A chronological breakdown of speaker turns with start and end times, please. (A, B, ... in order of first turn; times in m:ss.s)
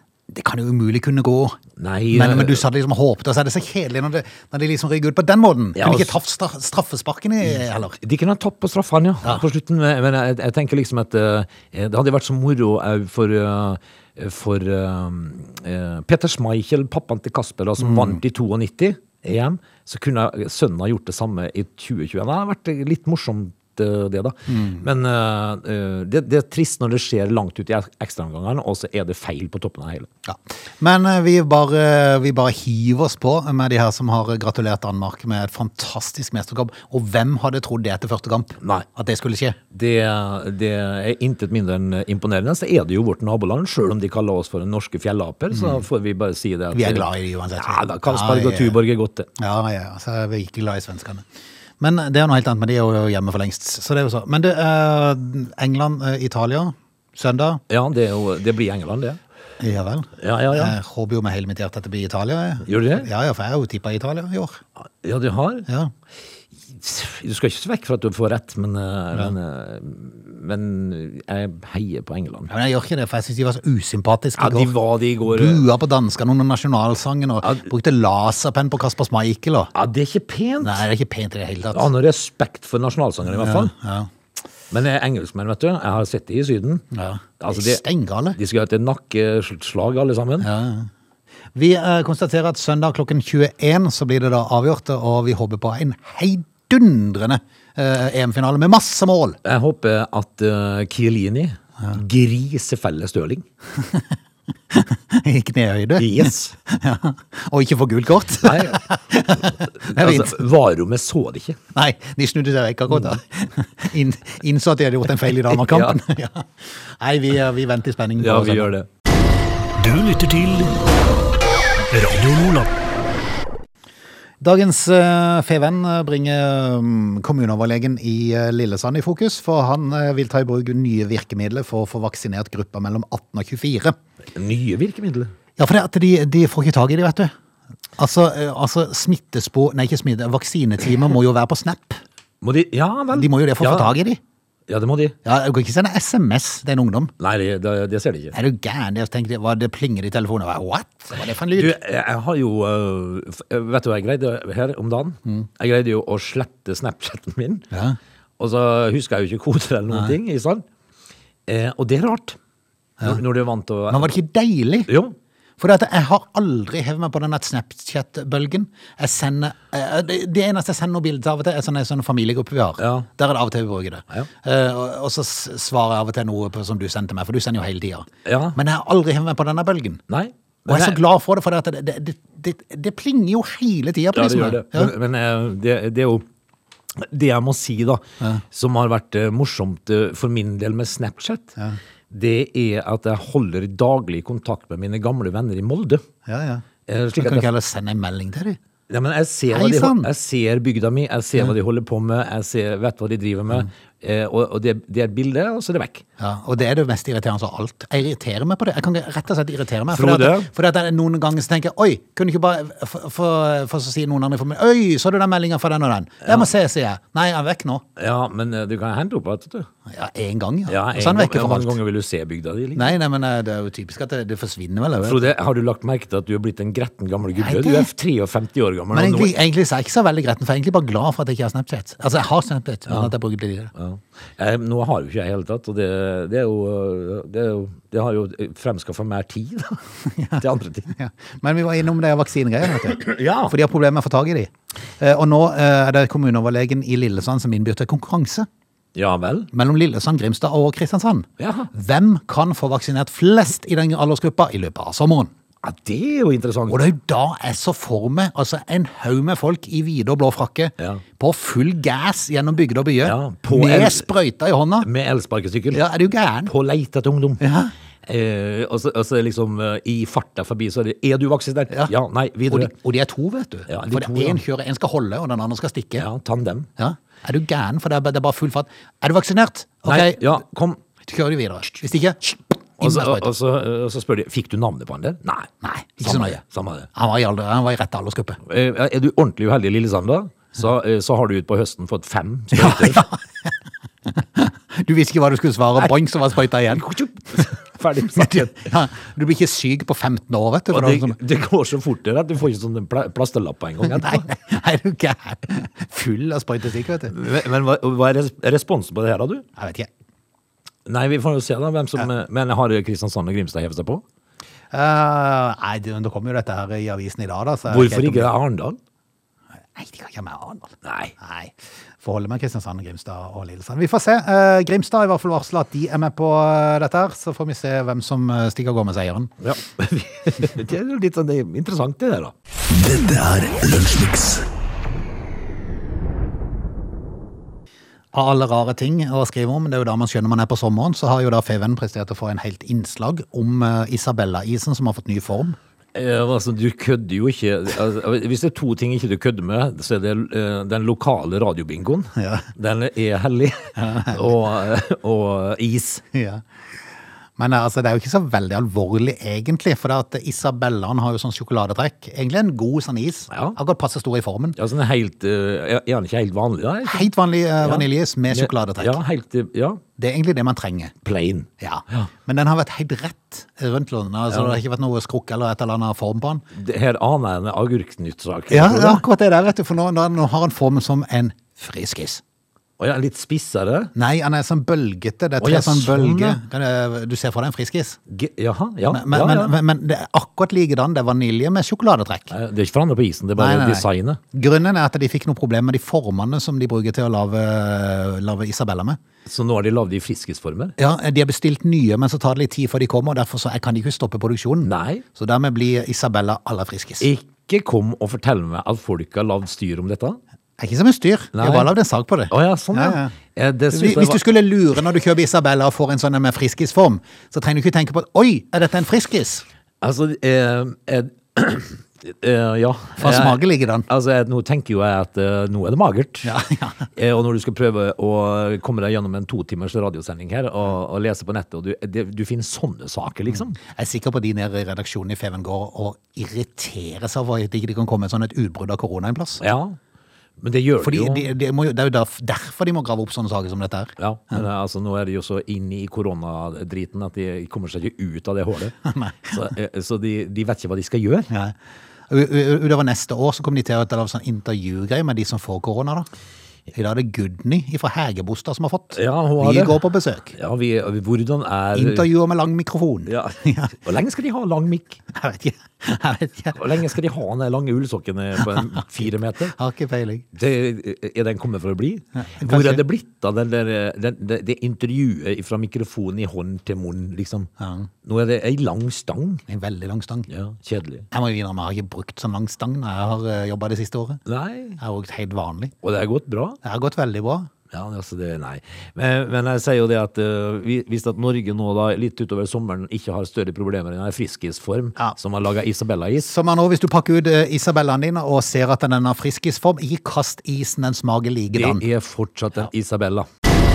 0:00.3-0:01.6 A
0:01.8-0:02.6 B
0:02.1-0:08.0 A
0:05.8-0:06.2 B
0:07.5-0:30.1 B
0:17.8-0:18.2 A
0:24.5-0:24.8 A
0:30.2-0:39.6 A
0:39.7-0:49.3 B
0:45.5-0:45.8 A
0:46.7-0:48.8 A
0:49.4-0:51.2 A
0:51.8-0:57.6 A
0:57.7-0:59.2 B
0:59.6-1:04.6 A
1:00.2-1:00.7 B
1:02.6-1:03.1 B
1:05.0-1:05.7 B
1:05.7-1:05.9 A
1:06.6-1:12.5 B
1:12.5-1:19.7 A
1:14.4-1:15.6 B
1:19.7-1:20.9 B
1:20.6-1:21.9 A
1:21.7-1:23.7 B
1:23.2-1:24.1 A
1:24.7-1:26.8 B
1:26.9-1:28.4 A
1:27.4-1:27.8 B
1:28.3-1:30.5 B
1:30.4-1:30.9 A
1:31.5-1:39.4 A
1:39.4-1:43.4 B
1:43.8-1:44.0 A
1:44.7-1:50.4 A
1:46.0-1:46.5 B
1:48.4-1:48.8 B
1:49.5-1:51.6 B
1:51.7-1:58.7 A
1:55.4-1:56.0 B
1:58.2-1:58.9 B
1:59.8-2:00.8 C
2:01.9-2:02.7 C
2:04.4-2:14.0 A
2:14.3-2:15.3 B
2:15.6-2:17.3 A
2:18.0-2:22.0 A
2:22.4-2:23.9 B
2:23.1-2:24.2 A
2:24.7-2:25.2 B
2:25.2-2:27.1 A
2:27.2-2:28.3 B
2:28.3-2:31.8 A
2:31.5-2:37.7 B
2:37.7-2:38.0 A
2:38.4-2:40.6 B
2:41.5-2:42.4 B
2:43.0-2:44.1 B
2:43.9-2:44.9 A
2:44.9-2:45.2 B
2:45.6-3:00.0 A
2:52.8-2:53.1 B
2:58.2-2:58.6 B
3:00.1-3:01.0 B
3:00.7-3:04.9 A
3:04.1-3:06.2 B
3:07.0-3:11.5 B
3:12.1-3:16.0 B
3:16.2-3:18.6 A
3:16.9-3:17.5 B
3:18.9-3:26.0 B
3:19.5-3:20.1 A
3:26.2-3:37.8 A
3:29.9-3:30.5 B
3:38.0-3:39.7 B
3:39.9-3:41.8 A
3:40.7-3:43.0 B
3:42.7-3:45.3 A
3:45.0-3:49.3 B
3:47.3-3:47.9 A
3:48.9-3:53.7 A
3:53.7-3:59.8 B
4:00.1-4:08.5 A
4:00.4-4:00.9 B
4:02.7-4:03.5 B
4:08.9-4:09.5 B
4:09.5-4:15.3 A
4:11.4-4:11.7 B
4:15.6-4:16.8 B
4:16.7-4:24.9 A
4:23.0-4:24.0 B
4:24.8-4:25.8 B
4:25.7-4:26.5 A
4:26.4-4:27.4 B
4:27.4-4:27.7 A
4:28.0-4:32.7 B
4:32.5-4:36.1 A
4:33.7-4:34.4 B
4:36.0-4:36.7 B
4:36.8-4:40.3 A
4:39.8-4:40.8 B
4:41.0-4:43.3 A
4:42.8-4:46.9 B
4:45.6-4:46.4 A
4:46.9-4:48.4 A
4:48.4-4:53.1 B
4:52.5-4:53.5 A
4:54.1-4:56.9 A
4:56.7-4:58.6 B
4:58.1-5:01.2 A
5:00.7-5:04.2 B
5:03.8-5:07.1 A
5:07.1-5:09.4 B
5:09.6-5:09.9 A
5:10.8-5:14.0 B
5:14.7-5:18.3 A
5:17.7-5:18.8 B
5:19.6-5:29.3 A
5:20.8-5:21.1 B
5:29.4-5:32.3 B
5:32.7-5:34.4 C
5:38.1-5:45.6 A
5:45.9-5:56.0 B
5:52.2-5:52.5 A
5:53.8-5:54.2 A
5:56.1-5:56.4 A
5:57.4-6:04.6 A
6:03.3-6:03.6 B
6:04.6-6:07.1 B
6:06.8-6:09.0 A
6:07.6-6:09.8 B
6:10.0-6:10.9 A
6:11.0-6:12.1 B
6:11.6-6:16.4 A
6:14.3-6:14.6 B
6:16.5-6:19.0 B
6:18.5-6:22.2 A
6:22.8-6:23.9 B
6:23.9-6:28.0 A
6:25.4-6:26.4 B
6:28.1-6:29.5 B
6:28.9-6:32.3 A
6:32.3-6:34.2 B
6:33.4-6:39.0 A
6:39.2-6:40.7 B
6:40.8-6:47.1 A
6:44.6-6:45.0 B
6:47.0-6:50.2 B
6:50.6-6:53.1 A
6:51.3-6:51.7 B
6:52.3-6:54.2 B
6:53.7-6:59.4 A
6:59.8-7:06.3 B
7:03.0-7:03.9 A
7:06.2-7:06.9 A
7:06.9-7:13.6 B
7:13.3-7:19.4 A
7:19.4-7:19.8 B
7:20.4-7:21.3 B
7:20.8-7:24.4 A
7:24.0-7:28.7 B
7:28.8-7:29.5 A
7:29.3-7:31.3 B
7:31.3-7:31.5 A
7:32.1-7:36.1 A
7:36.7-7:40.3 A
7:38.9-7:39.8 B
7:40.3-7:42.1 B
7:41.7-7:43.7 A
7:43.1-7:45.0 B
7:45.1-7:46.6 A
7:46.5-7:49.5 B
7:48.5-7:48.9 A
7:49.5-7:50.3 A
7:50.3-7:57.5 B
7:52.2-7:52.8 A
7:57.6-7:57.9 A
7:58.0-7:59.4 B
7:59.5-8:00.3 A
8:00.3-8:01.0 B
8:01.1-8:04.2 A
8:04.2-8:04.8 B
8:04.8-8:05.7 A
8:05.8-8:06.6 B
8:06.6-8:07.5 A
8:07.7-8:16.3 B
8:16.2-8:21.8 A
8:21.5-8:23.3 B